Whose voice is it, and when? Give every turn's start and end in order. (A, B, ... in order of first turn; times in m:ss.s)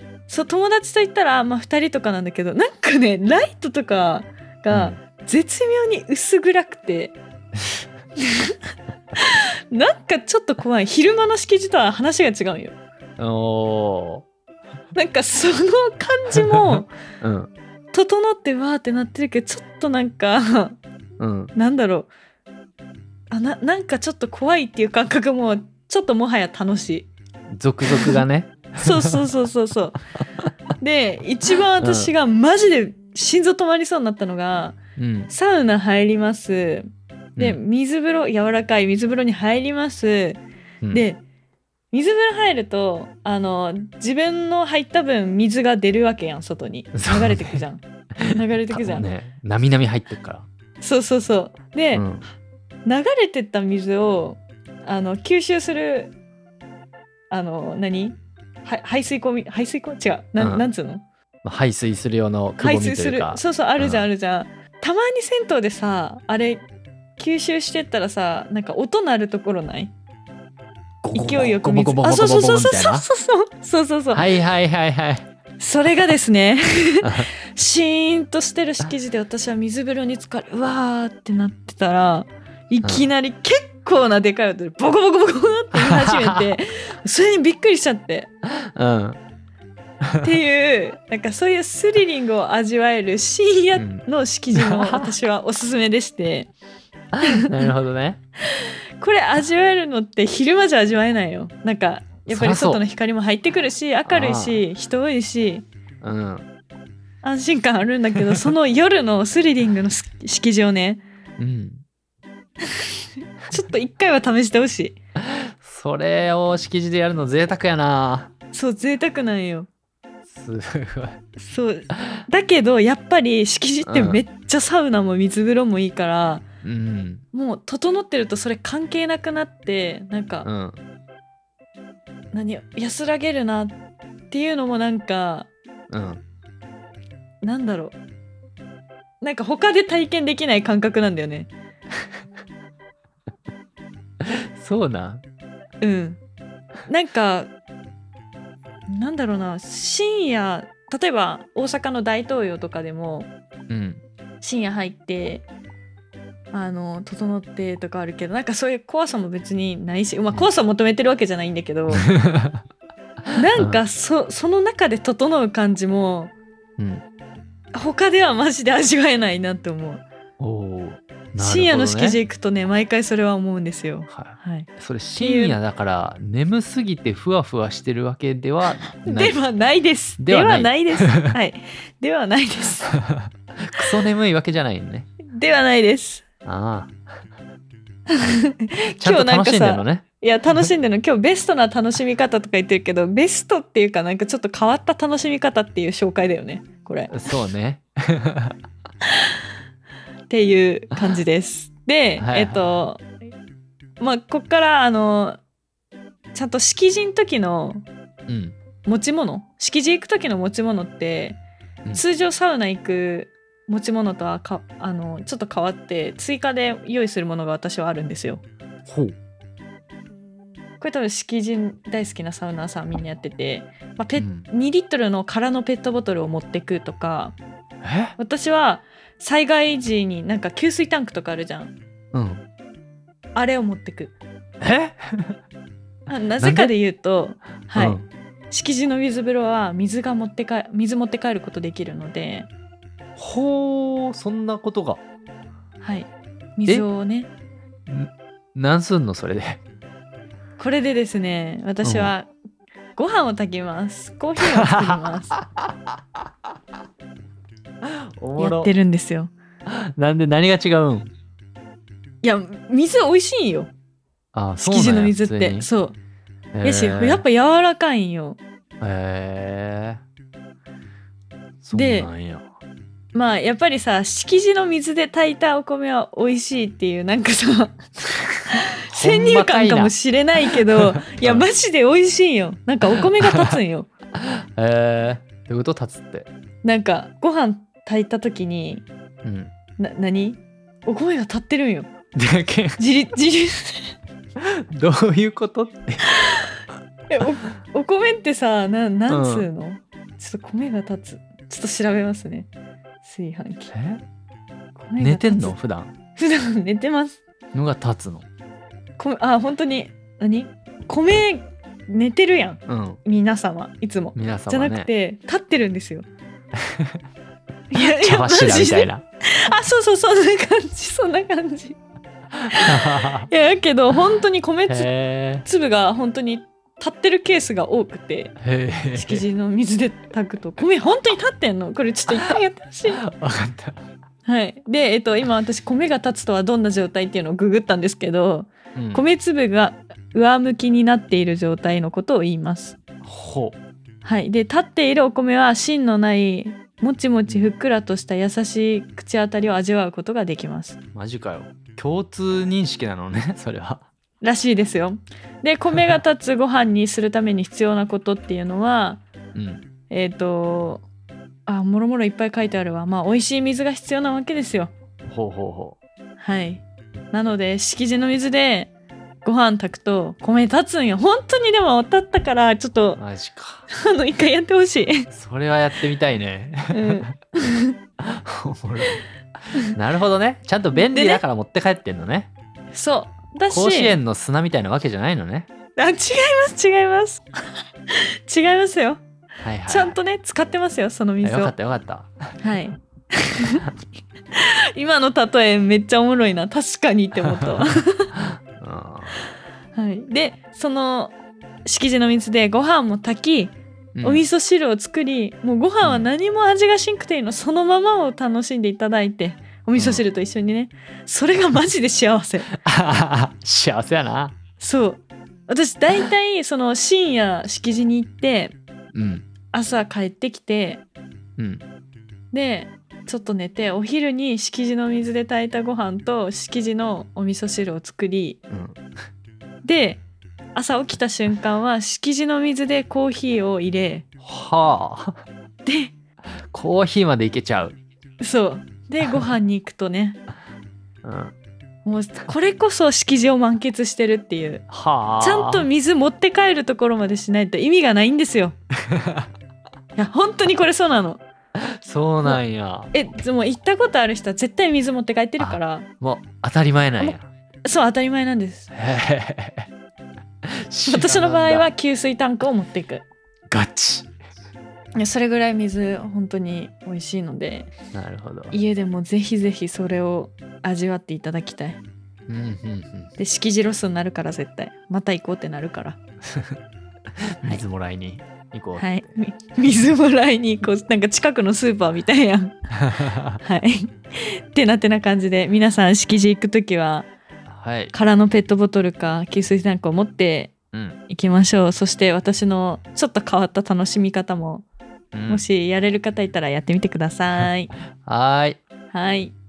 0:00.3-0:07.2 A
0:04.7-0:05.0 B
0:08.2-0:08.6 A
0:09.2-0:12.8 A
0:13.2-0:14.2 B
0:14.9-0:16.9 A
0:17.2-0:17.5 B
0:17.9-0:20.8 A
0:21.2-0:21.5 B
0:21.5-0:22.1 A
0:23.3-0:27.1 A
0:27.5-0:29.3 B
0:27.8-0:28.2 A
0:28.8-0:30.0 A
0:30.8-0:34.8 A
0:31.8-0:32.1 B
0:35.0-0:35.3 B
0:35.3-0:40.4 A
0:40.9-0:41.2 A
0:41.9-0:49.1 A
0:46.9-0:47.6 B
0:48.2-0:50.5 B
0:50.8-0:52.0 A
0:51.9-0:52.2 B
0:52.8-0:56.1 A
0:57.3-1:01.0 A
1:00.4-1:00.7 B
1:01.4-1:04.1 B
1:02.6-1:06.6 A
1:07.2-1:09.9 A
1:11.0-1:13.1 B
1:11.1-1:14.3 A
1:14.1-1:15.3 B
1:15.6-1:28.3 A
1:17.0-1:17.3 B
1:25.8-1:26.6 B
1:28.6-1:29.2 B
1:30.2-1:36.5 A
1:33.8-1:35.1 B
1:37.2-1:38.2 B
1:37.3-1:37.7 A
1:38.5-1:45.6 A
1:42.3-1:42.8 B
1:44.1-1:44.6 B
1:46.0-1:46.5 B
1:47.2-1:51.0 A
1:51.4-1:51.8 B
1:53.4-1:55.0 A
1:55.2-1:58.3 B
1:58.5-1:59.7 A
2:00.3-2:01.2 B
2:01.4-2:06.4 A
2:03.8-2:04.2 B
2:06.6-2:07.2 B
2:07.3-2:10.5 A
2:10.4-2:10.8 B
2:12.3-2:13.8 A
2:14.3-2:15.5 A
2:15.9-2:16.2 B
2:17.4-2:18.0 A
2:19.2-2:21.5 A
2:24.2-2:25.2 B
2:25.8-2:26.2 A
2:26.9-2:27.5 A
2:28.9-2:33.3 A
2:33.7-2:34.0 B
2:34.4-2:35.4 A
2:36.5-2:42.1 A
2:41.9-2:42.6 B
2:43.3-2:46.3 A
2:43.5-2:43.8 B
2:46.8-2:47.0 B
2:47.8-2:50.0 A
2:50.4-2:52.2 B
2:51.4-2:55.6 A
2:54.1-2:59.4 B
2:59.0-3:03.0 A
3:00.2-3:01.3 B
3:02.9-3:05.1 B
3:05.2-3:06.2 A
3:06.4-3:06.9 B
3:08.1-3:17.3 A
3:09.0-3:10.0 B
3:17.1-3:18.6 B
3:20.3-3:23.0 A
3:22.2-3:22.6 B
3:24.0-3:25.4 A
3:26.3-3:27.8 A
3:28.3-3:28.6 B
3:28.8-3:31.4 A
3:31.9-3:38.4 A
3:38.8-3:39.1 B
3:40.8-3:47.3 A
3:44.2-3:44.4 B
3:47.8-3:48.1 B
3:48.2-3:51.7 A
3:52.1-3:52.4 B
3:53.3-3:54.2 A
3:54.6-3:55.4 B
3:56.1-3:58.0 A
3:56.4-3:56.7 B
3:57.7-3:58.0 B
3:58.5-4:02.5 A
4:03.2-4:05.0 B
4:05.8-4:07.3 A
4:07.9-4:09.6 B
4:10.6-4:12.3 A
4:11.8-4:12.1 B
4:13.0-4:15.4 A
4:14.4-4:15.8 B
4:17.8-4:18.7 B
4:18.4-4:19.3 A
4:19.6-4:21.1 B
4:22.2-4:23.7 A
4:24.3-4:25.7 B
4:24.6-4:26.0 A
4:26.5-4:27.2 B
4:26.6-4:28.4 A
4:28.8-4:30.0 B
4:31.6-4:32.4 B
4:31.7-4:32.1 A
4:33.1-4:37.8 A
4:38.5-4:41.5 B
4:38.5-4:43.9 A
4:42.9-4:43.6 B
4:44.2-4:46.3 B
4:46.6-4:48.8 A
4:49.2-4:49.5 B
4:49.8-4:51.9 A
4:52.1-4:52.8 B
4:52.8-4:53.9 A
4:54.4-4:56.1 B
4:56.0-5:02.5 A
4:59.1-4:59.5 B
5:03.0-5:03.7 A
5:03.7-5:04.0 B
5:04.8-5:05.6 A
5:05.0-5:05.9 B
5:06.2-5:07.2 A
5:07.5-5:08.2 B
5:09.0-5:16.0 A
5:12.7-5:13.0 B
5:14.2-5:14.9 B
5:16.6-5:17.0 B
5:17.7-5:21.8 A
5:17.8-5:19.0 B
5:22.5-5:24.9 A
5:22.5-5:23.3 B
5:24.7-5:25.4 B
5:25.4-5:28.4 A
5:28.4-5:29.2 B
5:28.9-5:33.0 A
5:32.1-5:32.4 B
5:33.0-5:33.8 B
5:34.2-5:42.8 A
5:38.7-5:39.0 B
5:43.0-5:43.6 B
5:44.0-5:50.8 A
5:50.9-5:53.8 B
5:54.2-5:59.0 A
5:59.3-5:59.6 B
5:59.9-6:00.8 A
6:01.4-6:04.7 A
6:05.1-6:05.8 B
6:06.2-6:08.7 A
6:09.2-6:13.0 A
6:13.0-6:13.7 B
6:13.7-6:15.1 A
6:15.1-6:17.1 B
6:16.7-6:17.8 A
6:18.0-6:19.0 B
6:19.6-6:22.3 B
6:20.7-6:21.2 A
6:22.7-6:24.0 A
6:23.5-6:25.5 B
6:25.8-6:27.2 A
6:27.9-6:29.0 A
6:29.4-6:29.9 B
6:29.7-6:31.6 A
6:31.2-6:32.4 B
6:32.4-6:33.6 A
6:34.3-6:38.1 A
6:38.1-6:39.2 B
6:39.7-6:52.6 A
6:44.0-6:44.2 B
6:49.8-6:50.0 B
6:52.6-6:54.3 B
6:54.6-6:58.6 A
6:58.9-6:59.3 B
6:59.5-7:00.8 A
7:01.4-7:01.6 B
7:02.3-7:08.4 A
7:08.5-7:08.8 B
7:09.6-7:10.0 A
7:10.6-7:14.0 A
7:14.2-7:15.2 B
7:15.6-7:15.9 A
7:16.5-7:17.8 B
7:18.2-7:20.2 A
7:21.0-7:21.3 B
7:21.8-7:24.6 A
7:24.7-7:25.7 B
7:25.2-7:28.6 A
7:28.9-7:29.3 B
7:30.0-7:31.2 A
7:31.6-7:32.9 B
7:32.9-7:35.9 A
7:35.4-7:37.2 B
7:37.0-7:38.7 A
7:38.7-7:39.7 B
7:40.4-7:41.7 B
7:40.9-7:43.1 A
7:43.5-7:44.1 B
7:44.9-7:47.7 A
7:47.9-7:48.6 B
7:48.5-7:51.8 A
7:52.3-7:53.1 B
7:53.2-7:56.0 A
7:57.4-7:59.2 B
7:58.8-8:02.6 A
8:02.9-8:03.4 B
8:03.4-8:07.1 A
8:07.5-8:07.9 B
8:07.9-8:10.5 A
8:10.7-8:11.0 B
8:11.1-8:14.7 A
8:15.1-8:15.4 B
8:15.3-8:17.7 A
8:18.0-8:18.6 B
8:18.9-8:19.3 A